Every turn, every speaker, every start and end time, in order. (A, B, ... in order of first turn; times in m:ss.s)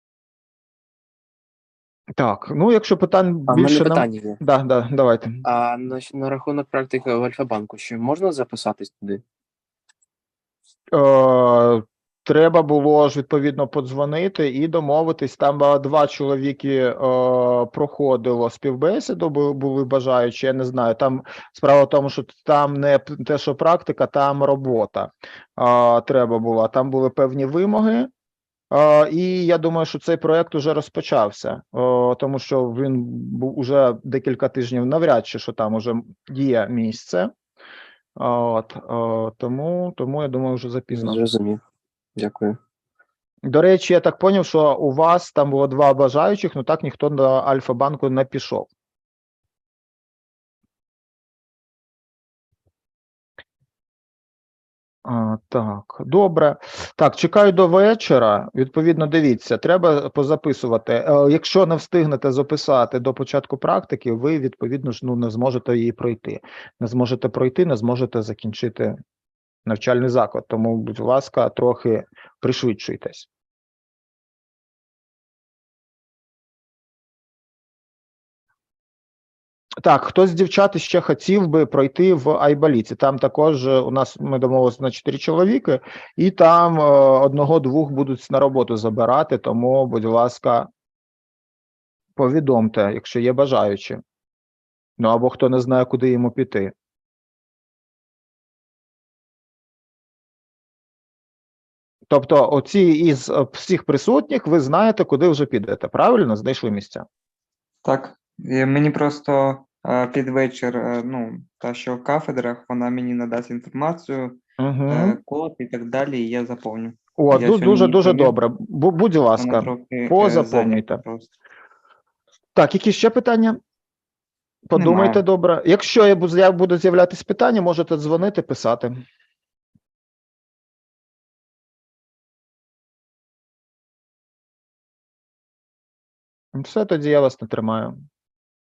0:02.2-0:05.3 A
0:03.5-0:04.4 B
0:05.4-0:09.2 B
0:10.9-0:28.1 A
0:28.7-0:37.3 A
0:38.2-0:41.2 A
0:40.9-0:41.6 B
0:42.2-0:42.5 B
0:43.4-0:48.7 A
0:55.0-1:09.0 A
1:09.6-1:13.3 A
1:19.8-1:30.7 A
1:32.2-1:34.0 A
1:35.0-1:36.7 A
1:42.1-1:47.0 A
1:47.8-1:58.4 C
1:54.6-1:55.2 A
1:57.2-2:01.0 A
1:59.4-2:01.3 C
2:02.6-2:03.6 A
2:04.7-2:08.9 A
2:04.7-2:05.2 C
2:16.5-2:17.9 A